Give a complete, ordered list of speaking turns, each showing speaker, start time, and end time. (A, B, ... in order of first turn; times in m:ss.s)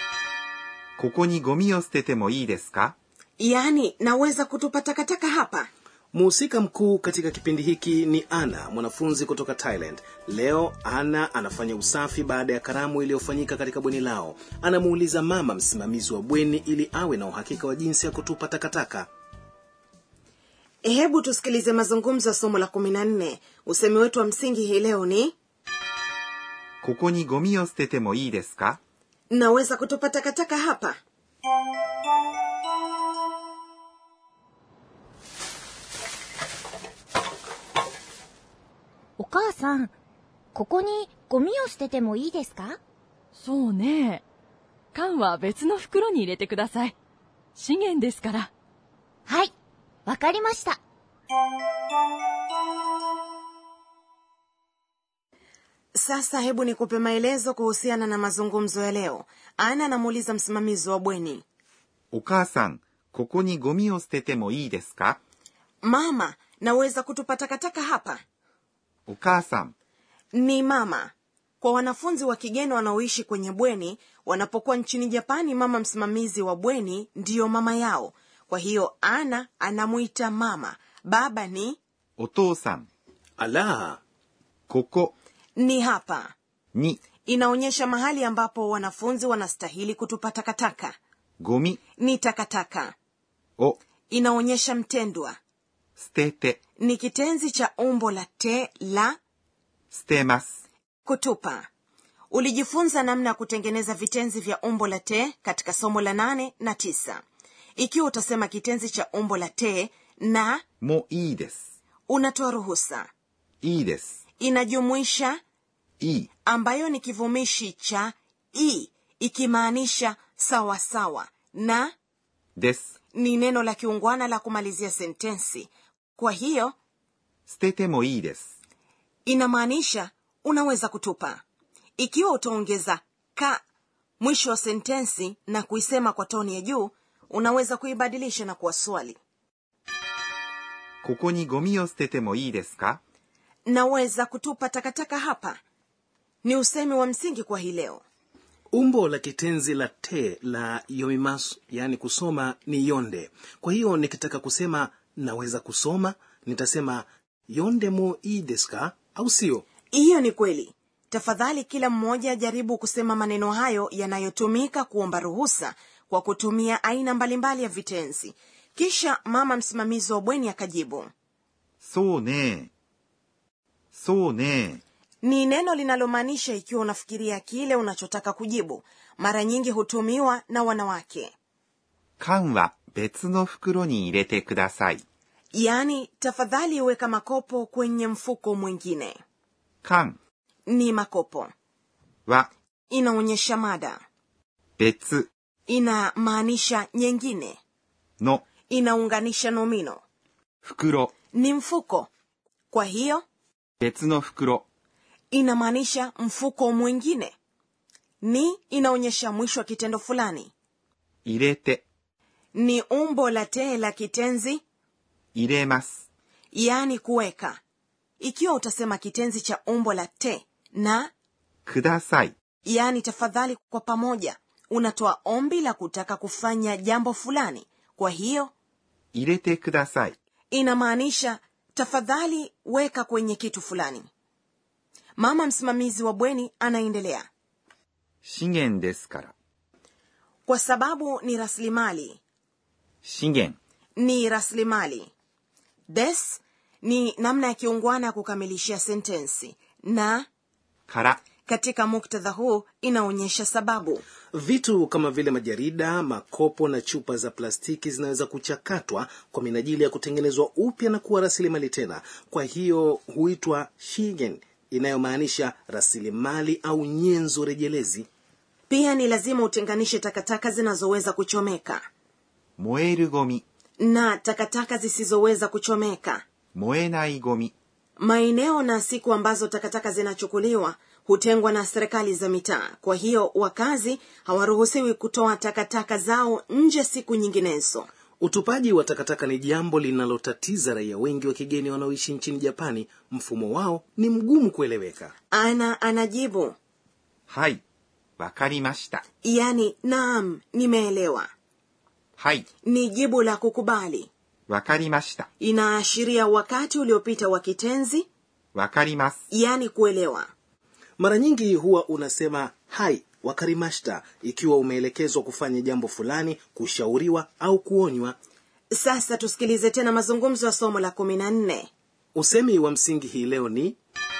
0:01.0-0:03.0 A
0:03.4-0:05.7 B
0:06.1-0:19.1 C
0:20.8-0:25.3 B
0:26.8-0:28.8 A
0:29.3-0:31.0 B
0:39.2-0:39.9 D
0:40.5-0:42.8 D
0:43.4-0:44.2 E
0:44.9-0:47.0 E
0:47.6-0:48.5 E
0:49.3-0:49.5 D
0:50.1-0:50.8 D
0:56.0-1:01.4 B
1:02.1-1:05.2 A
1:05.8-1:08.2 B
1:09.1-1:09.7 A
1:10.3-1:21.8 B
1:22.2-1:22.9 A
1:23.4-1:24.0 C
1:24.7-1:25.1 A
1:25.6-1:26.3 B
1:26.8-1:27.0 A
1:27.2-1:31.0 B
1:31.4-1:31.8 A
1:32.0-1:32.9 B
1:34.1-1:35.4 B
1:36.0-1:36.6 A
1:36.8-1:39.2 B
1:39.9-1:40.6 A
1:41.0-1:41.7 B
1:42.3-1:47.2 B
1:47.8-1:50.6 B
1:50.8-1:51.6 A
1:52.1-1:53.1 B
1:53.6-1:54.2 A
1:54.4-1:55.4 B
1:56.0-1:56.3 A
1:56.5-2:01.9 B
2:02.6-2:02.9 A
2:03.1-2:06.8 B
2:07.5-2:08.5 A
2:09.3-2:11.4 B
2:12.0-2:13.6 B
2:14.2-2:19.2 B
2:21.0-2:23.0 A
2:23.7-2:25.6 B
2:26.4-2:28.0 B
2:28.7-2:39.6 C
2:39.9-2:51.1 B
2:51.8-2:52.7 A
2:53.9-2:54.8 A
2:55.2-3:01.3 B
3:02.2-3:05.0 A
3:05.5-3:09.2 B
3:09.8-3:10.2 A
3:10.7-3:11.5 B
3:12.9-3:14.0 B
3:14.8-3:15.3 A
3:15.7-3:17.6 B
3:18.2-3:18.4 A
3:18.7-3:20.0 B
3:20.6-3:21.1 A
3:21.3-3:22.1 B
3:22.7-3:23.2 B
3:23.8-3:24.6 A
3:25.3-3:27.3 B
3:28.2-3:30.5 B
3:31.2-3:31.8 A
3:32.5-3:34.6 B
3:35.4-3:36.0 A
3:36.5-3:37.6 B
3:38.2-3:41.1 B
3:41.6-3:42.3 A
3:42.6-3:48.5 B
3:49.1-3:50.2 A
3:50.5-3:54.1 B
3:55.2-3:57.3 B
3:58.2-3:59.3 A
4:00.5-4:02.2 B
4:03.0-4:03.6 A
4:04.0-4:05.1 B
4:05.9-4:10.3 B
4:10.9-4:11.2 A
4:11.5-4:14.0 B
4:14.3-4:28.1 C
4:28.7-4:31.8 B
4:32.6-4:33.4 A
4:33.8-4:36.2 B
4:36.5-4:37.5 A
4:38.0-4:47.9 B
4:48.2-4:55.1 C
4:55.3-4:56.6 B
4:57.3-4:57.6 A
4:58.2-4:59.0 A
4:59.2-5:01.3 B
5:02.2-5:02.5 A
5:02.6-5:04.1 B
5:04.5-5:05.3 A
5:05.4-5:08.1 B
5:08.5-5:09.2 A
5:09.3-5:10.3 B
5:11.0-5:18.2 C
5:18.7-5:21.7 B
5:22.2-5:23.8 C